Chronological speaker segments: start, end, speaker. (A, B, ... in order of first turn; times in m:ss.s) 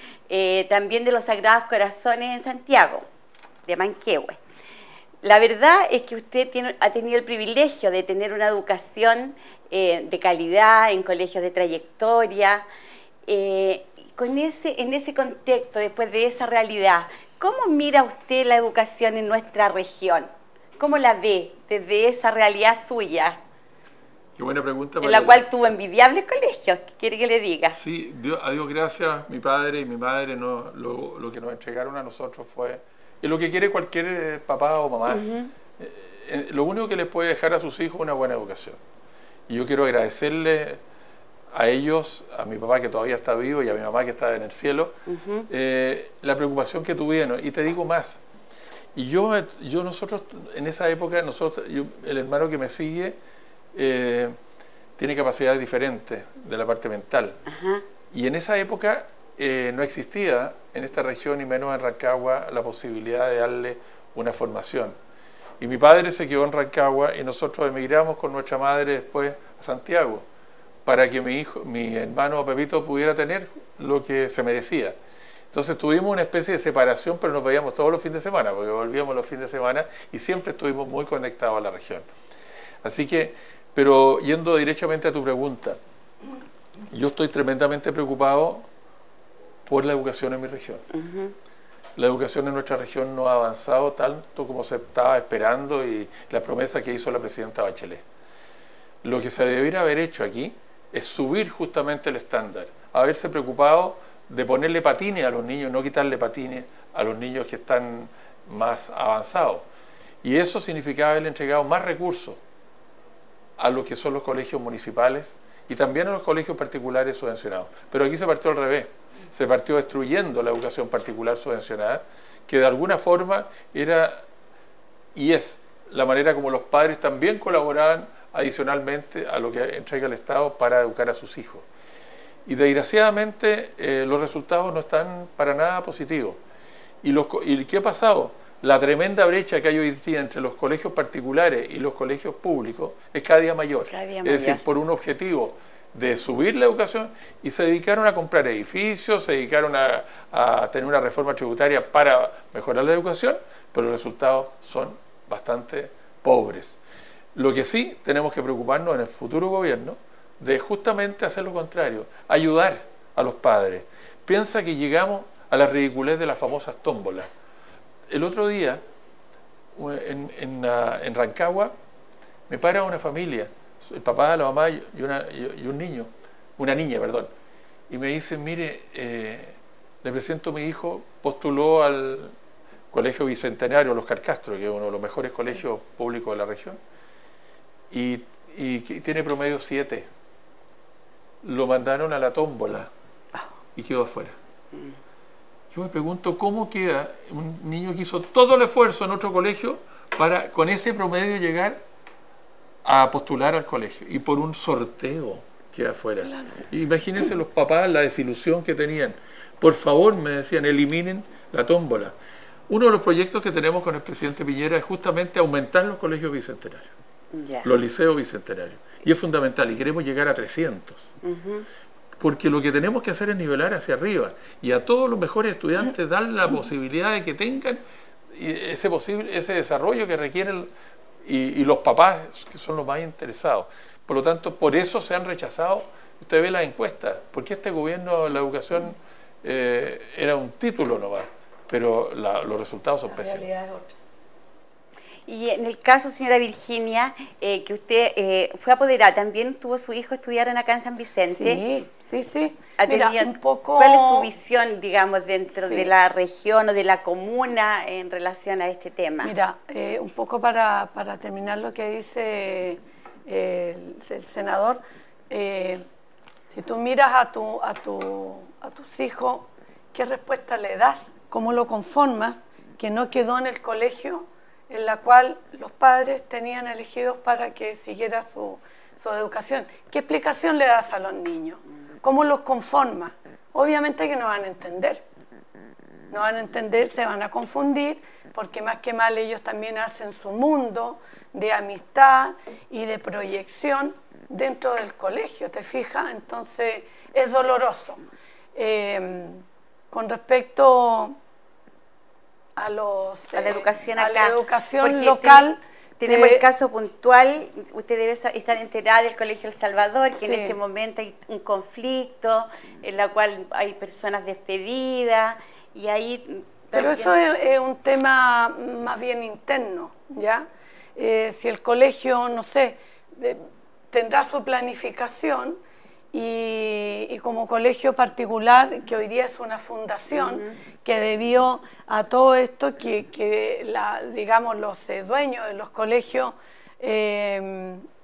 0:00.3-0:03.0 A
0:03.6-0:04.4 A
0:05.2-0:12.6 A
0:13.2-0:23.4 A
0:24.4-0:25.4 B
0:25.0-0:27.8 A
0:27.8-0:35.2 B
0:35.1-0:35.5 A
0:35.8-0:38.8 B
0:39.5-0:40.8 B
0:41.5-0:44.9 B
0:45.1-0:45.5 A
0:45.5-0:48.2 B
0:49.0-0:53.2 B
0:53.7-0:54.3 B
0:55.0-0:57.4 B
0:57.5-0:57.8 A
0:58.1-1:05.0 B
1:05.6-1:10.2 B
1:10.8-1:15.0 B
1:15.5-1:22.1 B
1:22.8-1:25.8 B
1:26.9-1:28.7 B
1:29.7-1:30.8 B
1:30.9-1:31.3 A
1:32.0-1:38.0 B
1:39.0-1:49.6 B
1:50.2-1:52.4 B
1:53.6-2:04.1 B
2:05.2-2:11.7 B
2:12.5-2:16.4 B
2:17.0-2:36.8 B
2:23.9-2:24.6 A
2:37.3-2:47.3 B
2:48.1-2:48.8 B
2:49.8-2:51.7 B
2:52.5-2:57.3 B
2:57.9-3:02.3 B
3:02.9-3:06.8 B
3:07.9-3:10.1 B
3:11.4-3:12.9 B
3:13.8-3:14.3 B
3:15.7-3:21.8 B
3:22.8-3:32.2 B
3:32.7-3:36.9 B
3:37.3-3:37.7 A
3:37.6-3:41.1 B
3:41.2-3:41.7 A
3:42.2-3:50.7 B
3:51.2-4:03.4 B
4:03.1-4:03.9 C
4:05.2-4:11.6 A
4:11.3-4:14.3 C
4:12.8-4:19.3 A
4:15.6-4:15.9 C
4:19.2-4:25.8 C
4:26.5-4:45.0 C
4:46.1-4:58.0 C
4:58.6-5:01.2 C
5:02.6-5:06.4 C
5:03.3-5:05.4 A
5:06.0-5:17.2 A
5:10.1-5:10.6 C
5:16.7-5:25.6 C
5:26.1-5:37.8 C
5:30.1-5:30.6 A